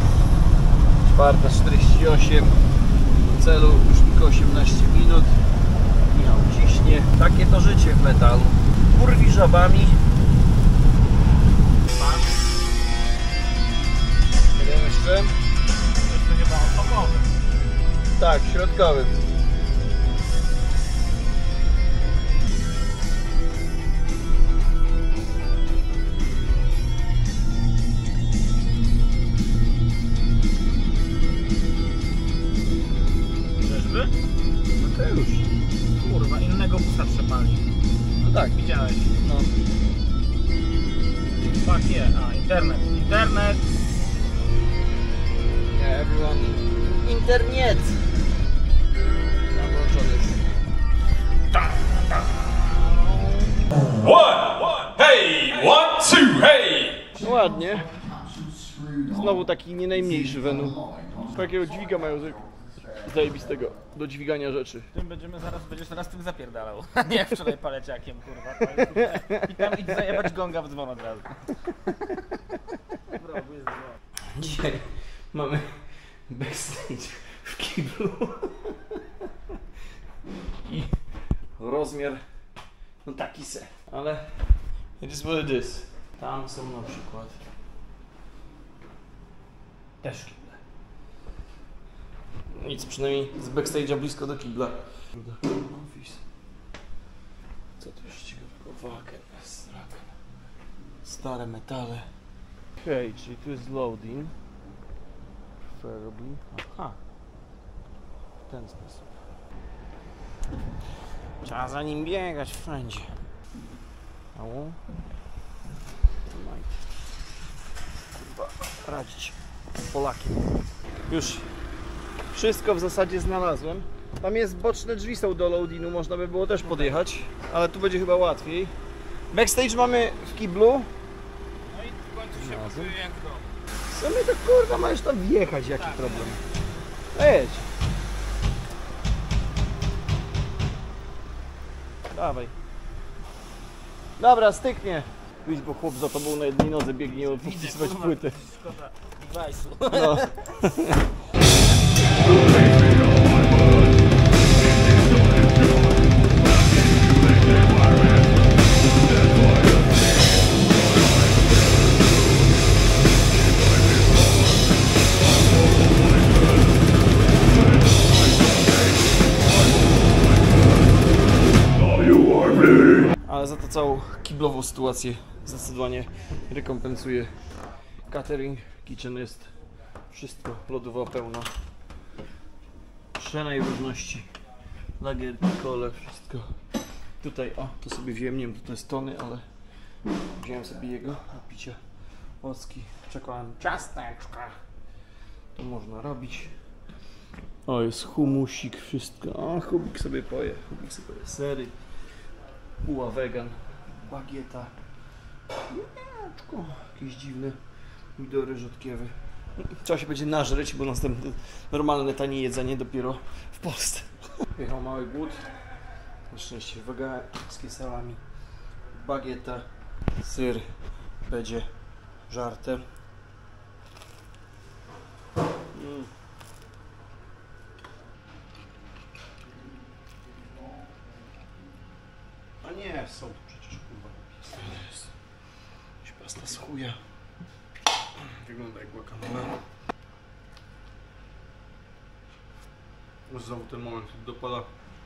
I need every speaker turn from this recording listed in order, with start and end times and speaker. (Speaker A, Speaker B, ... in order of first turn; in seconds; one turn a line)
Speaker A: 1.1-2.6
Speaker A: 3.3-5.4
Speaker A: 6.1-10.0
Speaker B: 11.9-12.3
Speaker A: 14.5-15.3
Speaker B: 16.0-17.3
Speaker A: 18.1-19.2
Speaker B: 33.6-34.1
Speaker A: 34.8-35.5
Speaker B: 36.0-37.7
Speaker A: 38.2-38.6
Speaker B: 38.5-39.2
Speaker A: 39.2-39.5
Speaker B: 41.6-43.7
Speaker A: 45.7-48.0
Speaker A: 49.5-50.4
Speaker A: 53.0-53.5
Speaker C: 53.9-57.1
Speaker A: 57.2-57.9
Speaker A: 59.1-60.8
Speaker A: 61.3-62.4
Speaker A: 63.0-64.9
Speaker B: 64.9-71.3
Speaker A: 69.0-69.8
Speaker B: 73.1-74.0
Speaker A: 74.3-75.7
Speaker A: 76.3-79.0
Speaker A: 80.7-80.9
Speaker A: 81.6-82.2
Speaker A: 83.0-84.2
Speaker A: 85.0-87.4
Speaker A: 90.0-90.6
Speaker A: 92.6-96.2
Speaker A: 97.8-100.1
Speaker A: 101.0-102.1
Speaker A: 102.8-104.3
Speaker A: 105.7-106.9
Speaker A: 108.5-109.1
Speaker A: 111.4-113.1
Speaker A: 114.3-114.8
Speaker A: 116.3-116.7
Speaker A: 118.2-119.3
Speaker A: 119.9-120.4
Speaker A: 121.1-121.5
Speaker A: 122.3-128.7
Speaker B: 126.6-127.0
Speaker A: 129.3-130.9
Speaker B: 131.7-133.5
Speaker A: 132.3-132.9
Speaker A: 133.9-136.4
Speaker B: 135.8-136.4
Speaker A: 137.1-137.7
Speaker A: 142.1-142.5
Speaker A: 144.2-148.3
Speaker B: 147.1-150.3
Speaker A: 149.9-151.0
Speaker C: 171.8-173.1
Speaker A: 173.2-177.3
Speaker A: 178.1-179.5
Speaker A: 180.1-181.5
Speaker A: 183.2-184.3
Speaker A: 185.0-186.5
Speaker A: 187.2-189.4
Speaker A: 190.4-191.8
Speaker A: 192.4-193.9
Speaker A: 195.6-196.5
Speaker A: 197.7-201.7
Speaker A: 202.8-204.7
Speaker A: 205.7-207.6
Speaker A: 208.2-215.4
Speaker A: 216.3-218.2
Speaker A: 218.9-219.7
Speaker A: 220.2-220.7
Speaker A: 221.2-221.7
Speaker A: 222.3-222.8
Speaker A: 225.7-226.1
Speaker A: 232.6-235.1
Speaker A: 236.0-237.0
Speaker A: 238.3-239.6
Speaker A: 243.3-244.7